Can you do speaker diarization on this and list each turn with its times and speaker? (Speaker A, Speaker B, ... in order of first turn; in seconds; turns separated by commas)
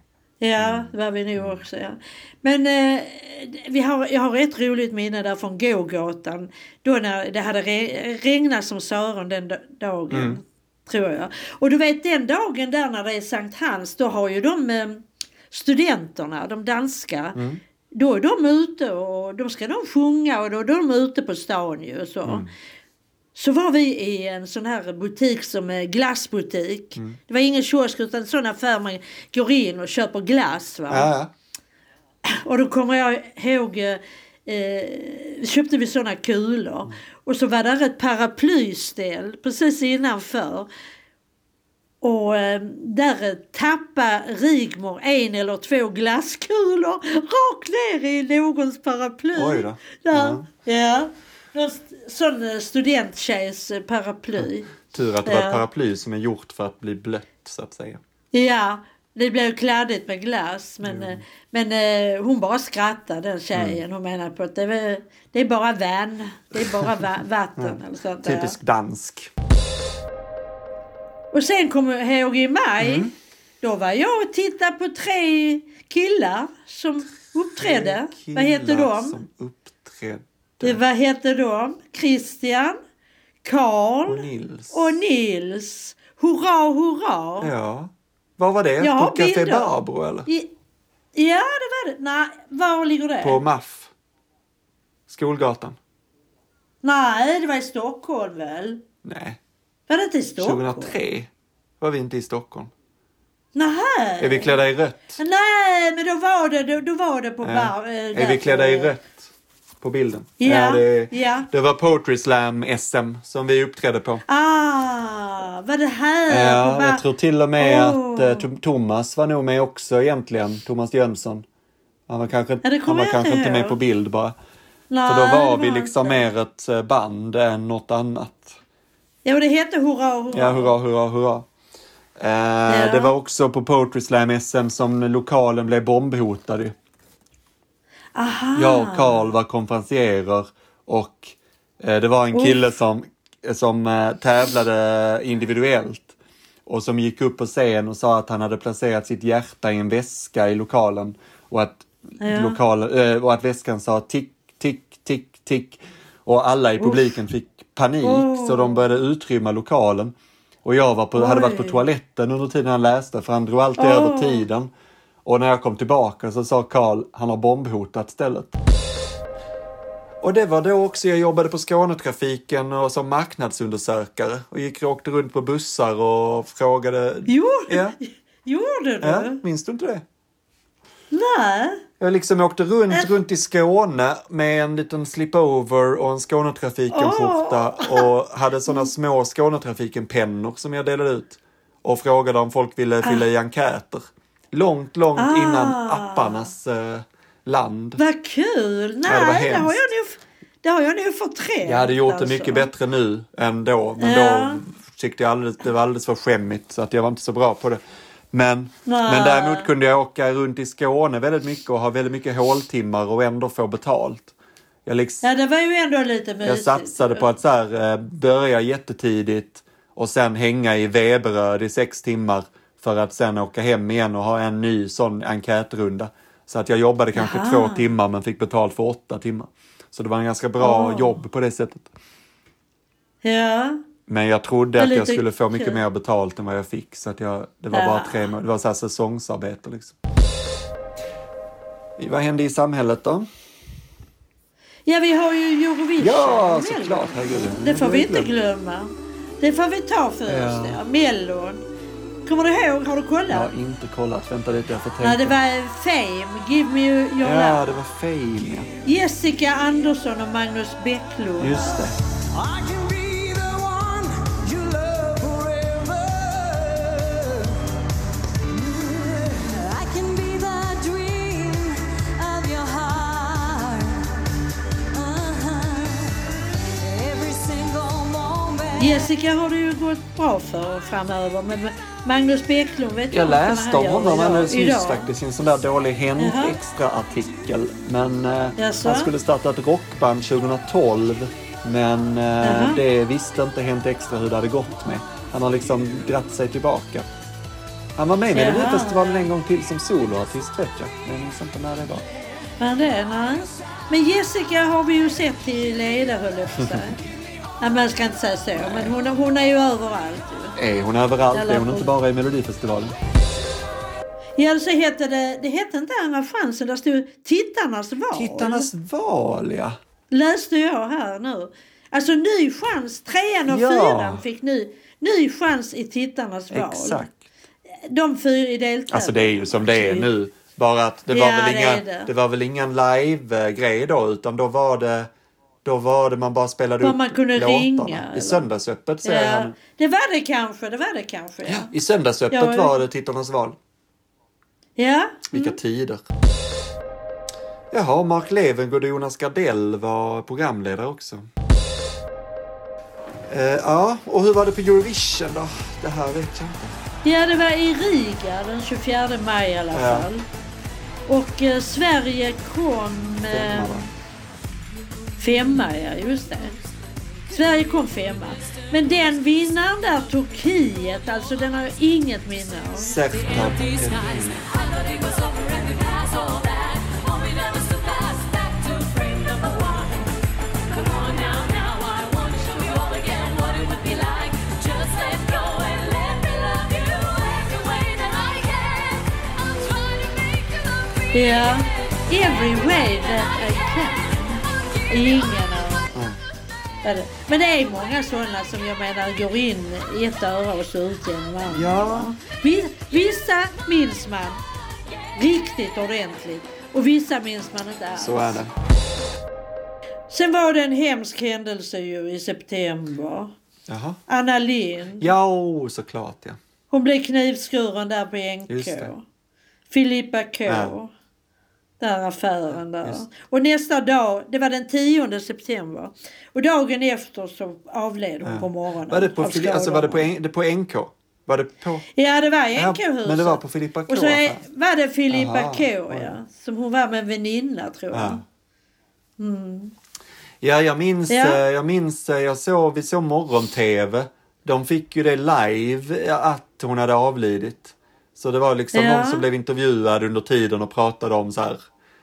Speaker A: 0.4-17.4, Speaker B: 0.6-1.6, Speaker B: 10.1-10.4, Speaker B: 17.4-17.6, Speaker A: 17.9-22.5, Speaker B: 22.2-22.5, Speaker A: 23.4-31.1, Speaker B: 30.9-31.3, Speaker A: 32.3-40.7, Speaker A: 42.0-54.7, Speaker B: 49.4-50.5, Speaker B: 54.4-58.0, Speaker A: 55.2-55.6, Speaker A: 58.3-68.6, Speaker B: 60.8-61.2, Speaker B: 63.5-63.8, Speaker B: 67.6-69.3, Speaker A: 71.3-73.1, Speaker B: 72.8-73.1, Speaker A: 73.6-79.2, Speaker B: 77.6-80.8, Speaker A: 80.6-82.8, Speaker A: 83.4-87.5, Speaker B: 84.1-85.0, Speaker B: 87.4-90.3, Speaker A: 88.8-89.7, Speaker A: 91.2-93.4, Speaker B: 93.2-93.9, Speaker B: 95.1-95.8, Speaker A: 96.8-98.8, Speaker B: 99.0-99.4, Speaker A: 99.9-101.0, Speaker B: 100.4-102.7, Speaker A: 103.5-104.6, Speaker B: 104.2-105.2, Speaker A: 105.2-108.9, Speaker B: 107.4-109.2, Speaker B: 109.8-114.2, Speaker A: 110.4-111.5, Speaker A: 114.3-117.0, Speaker B: 116.3-121.5, Speaker A: 117.6-118.5, Speaker B: 122.1-124.3, Speaker A: 122.6-123.8, Speaker A: 124.9-126.2, Speaker B: 125.1-128.6, Speaker A: 129.2-130.7, Speaker B: 130.3-131.5, Speaker B: 132.2-136.7, Speaker A: 132.7-133.1, Speaker A: 138.2-139.3, Speaker B: 138.6-146.1, Speaker A: 142.3-142.7, Speaker B: 146.7-164.7, Speaker A: 152.2-152.6, Speaker A: 156.8-157.1, Speaker A: 158.0-158.8, Speaker A: 161.2-161.8, Speaker A: 163.8-164.4, Speaker B: 165.2-168.6, Speaker B: 170.2-178.0, Speaker A: 177.3-179.4, Speaker B: 179.0-180.0, Speaker A: 181.1-181.8, Speaker B: 182.0-198.0, Speaker A: 186.9-188.1, Speaker A: 195.2-196.5, Speaker A: 198.0-202.7, Speaker B: 199.1-199.9, Speaker B: 201.7-207.8, Speaker A: 204.0-204.6, Speaker B: 208.3-214.3, Speaker A: 208.9-209.7, Speaker B: 214.9-215.2, Speaker A: 215.2-217.3, Speaker B: 216.4-231.9, Speaker A: 227.1-227.8, Speaker A: 230.6-231.2, Speaker A: 233.2-233.8, Speaker B: 234.1-240.0, Speaker A: 234.8-235.8, Speaker A: 237.7-238.3, Speaker B: 242.0-243.3, Speaker A: 244.9-251.6, Speaker B: 246.0-248.3, Speaker B: 250.3-250.8, Speaker A: 252.3-253.5, Speaker B: 253.3-255.4, Speaker A: 255.0-257.6, Speaker B: 257.2-258.7, Speaker A: 258.9-261.8, Speaker B: 261.4-262.0, Speaker C: 262.3-267.6, Speaker C: 268.5-274.2, Speaker C: 274.9-276.2, Speaker C: 276.8-279.1, Speaker A: 278.8-285.1, Speaker B: 283.1-297.1, Speaker A: 286.2-286.6, Speaker A: 288.6-289.1, Speaker A: 292.4-292.8, Speaker B: 298.0-302.1, Speaker A: 298.3-299.3, Speaker A: 302.6-307.0, Speaker B: 306.6-306.8, Speaker A: 307.6-310.6, Speaker B: 308.6-308.9, Speaker B: 310.6-312.9, Speaker A: 311.3-311.9, Speaker A: 314.4-318.7, Speaker B: 318.1-319.8, Speaker A: 320.1-327.1, Speaker B: 323.5-324.2, Speaker B: 326.5-327.2, Speaker A: 327.9-330.1, Speaker B: 328.9-335.1, Speaker A: 331.1-332.1, Speaker B: 335.6-339.6, Speaker A: 336.8-338.4, Speaker A: 339.0-341.7, Speaker B: 341.5-343.6, Speaker A: 342.3-342.7, Speaker A: 344.8-345.6, Speaker B: 345.3-346.1, Speaker B: 347.7-351.3, Speaker B: 353.3-356.8, Speaker A: 357.0-360.2, Speaker B: 359.7-360.1, Speaker A: 361.1-363.7, Speaker B: 363.3-363.9, Speaker A: 365.2-366.5, Speaker A: 367.3-373.0, Speaker C: 367.3-369.1, Speaker B: 372.8-374.5, Speaker C: 373.1-380.1, Speaker C: 380.7-391.6, Speaker A: 391.1-395.9, Speaker C: 392.4-393.8, Speaker B: 395.9-396.2, Speaker A: 396.8-404.4, Speaker B: 401.5-402.1, Speaker A: 405.1-408.4, Speaker B: 408.0-408.5, Speaker A: 410.1-413.3, Speaker B: 413.7-414.0, Speaker A: 414.1-415.1, Speaker B: 415.0-416.4, Speaker A: 416.7-419.0, Speaker B: 418.5-418.9, Speaker A: 419.7-420.9, Speaker B: 420.5-420.8, Speaker A: 421.8-430.1, Speaker B: 428.2-431.9, Speaker A: 431.9-438.2, Speaker B: 432.6-434.4, Speaker B: 435.1-436.1, Speaker B: 437.9-438.2, Speaker A: 439.2-439.7, Speaker B: 440.4-451.7, Speaker A: 441.1-441.4, Speaker A: 448.7-449.2